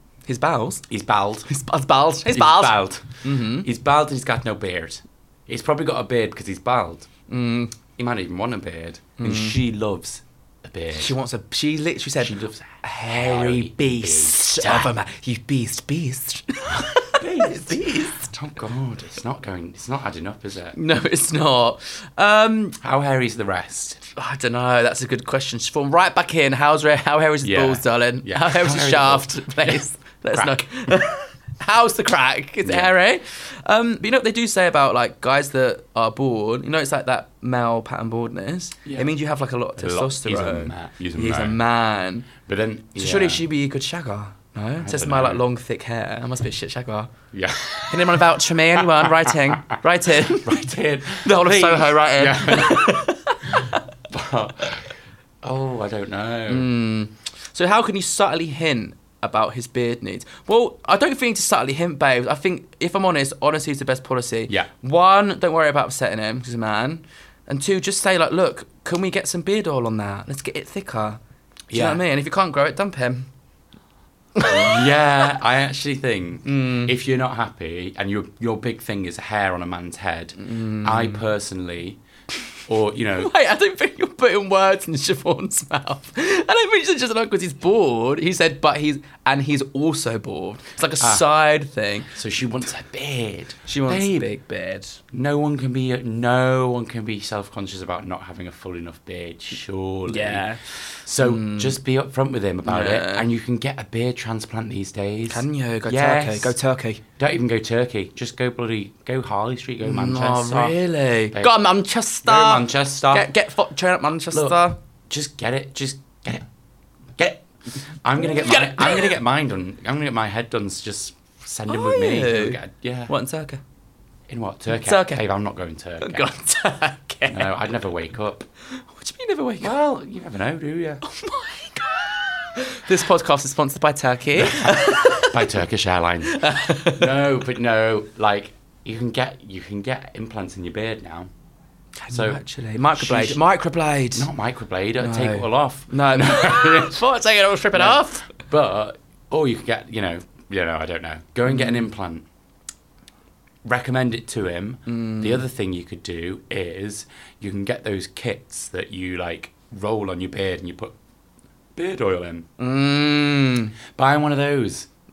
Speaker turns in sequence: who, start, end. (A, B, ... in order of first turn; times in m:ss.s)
0:00.2-0:00.8 A
0:00.9-0:01.5 B
0:01.5-0:03.7 A
0:02.3-0:07.1 B
0:07.3-0:07.7 A
0:08.0-0:11.1 B
0:09.2-0:09.6 A
0:11.0-0:18.3 A
0:12.2-0:14.9 B
0:16.7-0:20.8 B
0:20.8-0:22.8 A
0:22.8-0:24.0 B
0:24.1-0:42.3 A
0:27.4-0:30.6 B
0:32.6-0:32.9 B
0:38.8-0:39.1 B
0:39.8-0:41.6 B
0:42.4-0:43.4 B
0:43.0-0:47.1 A
0:44.8-0:45.4 B
0:47.3-0:49.6 B
0:47.8-0:53.8 A
0:50.3-0:56.7 B
0:56.5-1:11.2 A
1:11.7-1:12.0 B
1:11.7-1:13.3 A
1:14.4-1:14.9 A
1:14.4-1:22.0 B
1:16.4-1:16.9 A
1:20.4-1:21.2 A
1:22.7-1:23.3 B
1:23.2-1:32.1 A
1:31.0-1:31.3 B
1:32.1-1:34.3 B
1:33.7-1:35.0 A
1:35.1-1:40.5 B
1:40.1-1:40.6 A
1:41.0-1:46.6 B
1:41.2-1:41.8 A
1:42.6-1:43.2 A
1:45.3-1:47.0 A
1:47.2-1:50.8 B
1:49.8-1:54.8 A
1:52.2-1:53.3 B
1:54.3-1:54.6 B
1:55.1-1:56.4 B
1:57.2-1:57.4 B
1:58.0-2:03.1 B
1:58.2-1:59.2 A
2:01.7-2:03.6 A
2:04.3-2:06.2 B
2:04.7-2:05.2 A
2:06.0-2:07.5 A
2:07.3-2:08.4 B
2:08.9-2:09.7 A
2:09.6-2:11.0 B
2:11.0-2:15.4 A
2:14.5-2:21.3 B
2:16.2-2:17.1 A
2:22.0-2:24.3 A
2:22.1-2:22.4 B
2:22.9-2:23.4 B
2:24.1-2:27.0 B
2:25.0-2:28.3 A
2:27.7-2:32.2 B
2:31.5-2:31.8 A
2:33.6-2:41.0 B
2:34.9-2:35.4 A
2:41.8-2:42.5 B
2:42.6-2:43.7 A
2:43.9-2:44.9 B